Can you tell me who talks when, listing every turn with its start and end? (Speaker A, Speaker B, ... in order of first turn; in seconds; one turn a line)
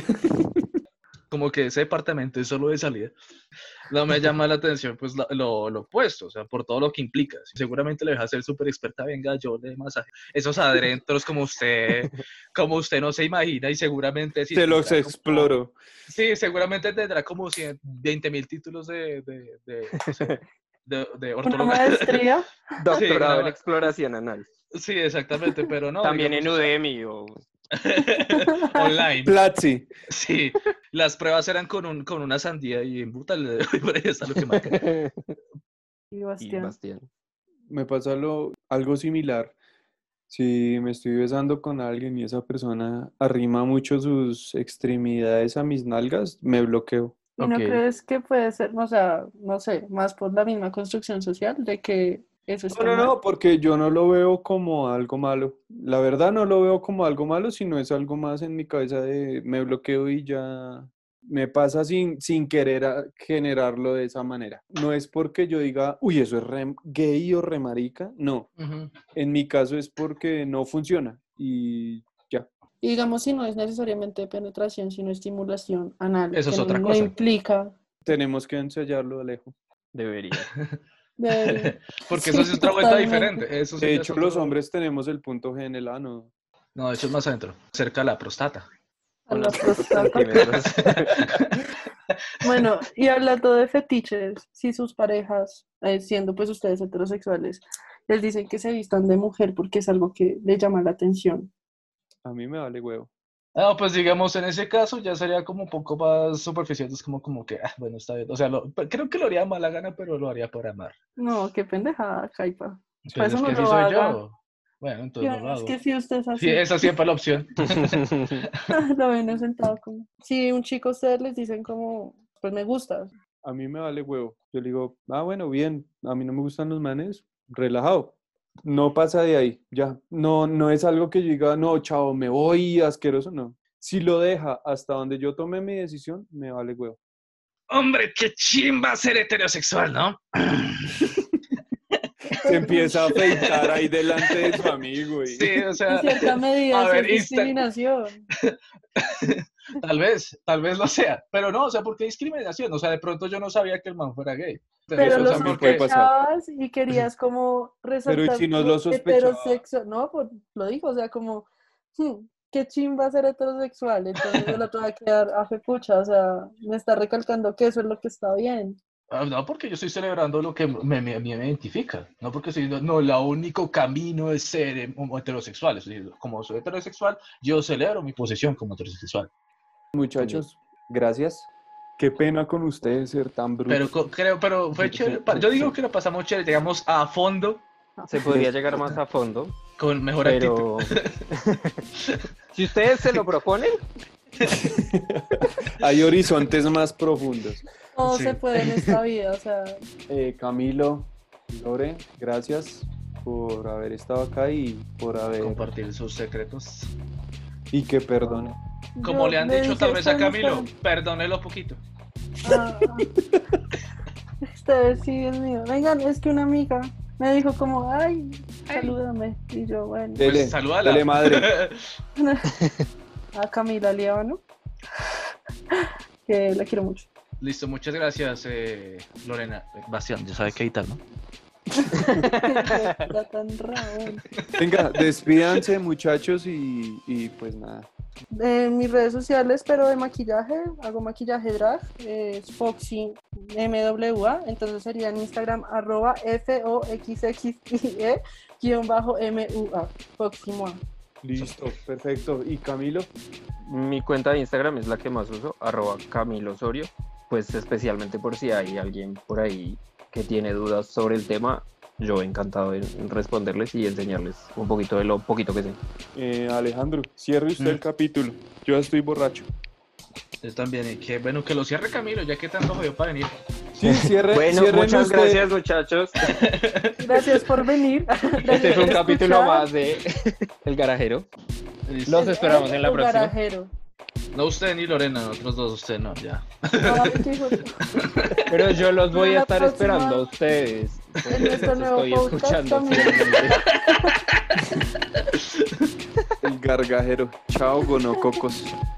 Speaker A: 0.1-0.6
Speaker B: 1.3-3.1
Speaker B: 3.9-15.5
Speaker A: 14.5-15.8
Speaker B: 16.1-22.3
Speaker C: 20.1-20.4
Speaker D: 21.4-22.6
Speaker C: 22.8-24.5
Speaker B: 22.9-23.6
Speaker B: 24.7-26.7
Speaker C: 26.0-27.4
Speaker B: 27.7-29.4
Speaker D: 28.3-28.9
Speaker A: 29.2-29.9
Speaker B: 30.1-34.8
Speaker C: 34.4-35.4
Speaker D: 36.1-36.8
Speaker C: 36.4-37.1
Speaker A: 37.7-39.5
Speaker A: 40.3-47.8
Speaker D: 47.4-53.1
Speaker A: 52.7-68.5
Speaker B: 68.6-68.9
Speaker A: 69.1-72.5
Speaker D: 72.8-77.7
Speaker B: 76.3-77.1
Speaker A: 78.0-79.5
Speaker C: 79.9-80.5
Speaker D: 81.2-83.4
Speaker B: 81.4-84.6
Speaker A: 83.8-86.3
Speaker B: 86.8-88.7
Speaker D: 89.3-90.5
Speaker C: 89.3-91.5
Speaker B: 90.4-91.5
Speaker D: 92.4-101.5
Speaker A: 102.2-103.1
Speaker B: 103.5-111.0
Speaker D: 111.2-114.2
Speaker B: 113.1-115.8
Speaker D: 115.2-116.9
Speaker B: 116.4-118.6
Speaker C: 117.7-118.5
Speaker D: 118.7-123.1
Speaker A: 123.4-137.0
Speaker B: 137.7-141.2
Speaker D: 142.3-143.3
Speaker A: 142.4-145.6
Speaker B: 143.3-144.7
Speaker B: 145.3-147.6
Speaker D: 145.9-148.3
Speaker B: 148.4-155.9
Speaker D: 154.9-168.8
Speaker A: 155.0-156.1
Speaker A: 158.1-159.6
Speaker B: 169.1-179.3
Speaker A: 179.9-181.5
Speaker C: 180.2-180.4
Speaker A: 182.0-183.9
Speaker B: 183.7-187.6
Speaker A: 184.8-185.8
Speaker C: 188.1-189.6
Speaker A: 188.2-188.9
Speaker B: 189.8-191.1
Speaker C: 190.2-191.8
Speaker B: 192.0-192.2
Speaker C: 192.5-193.8
Speaker A: 194.4-197.7
Speaker D: 198.0-199.8
Speaker B: 198.1-198.4
Speaker A: 200.1-205.6
Speaker B: 205.4-206.9
Speaker A: 207.7-208.6
Speaker D: 209.0-210.7
Speaker B: 209.0-211.8
Speaker D: 212.4-213.1
Speaker D: 214.5-220.3
Speaker B: 218.7-219.0
Speaker A: 220.2-221.5
Speaker B: 220.2-222.0
Speaker D: 222.2-222.5
Speaker D: 223.3-224.4
Speaker D: 225.7-227.1
Speaker B: 227.4-231.0
Speaker D: 231.8-234.2
Speaker C: 231.9-233.0
Speaker B: 234.3-235.0
Speaker A: 234.6-237.9
Speaker D: 238.3-250.8
Speaker A: 251.2-253.1
Speaker C: 253.7-265.8
Speaker A: 266.1-269.5
Speaker B: 270.4-273.4
Speaker A: 273.8-275.5
Speaker C: 273.8-276.2
Speaker B: 276.3-277.0
Speaker D: 277.0-279.7
Speaker C: 278.4-281.3
Speaker B: 281.9-282.4
Speaker C: 282.1-283.4
Speaker D: 282.1-283.7
Speaker B: 284.3-287.4
Speaker D: 286.8-288.0
Speaker B: 288.0-288.5
Speaker C: 288.5-293.6
Speaker D: 289.1-290.3
Speaker D: 291.3-294.2
Speaker B: 295.2-295.6
Speaker A: 296.4-298.8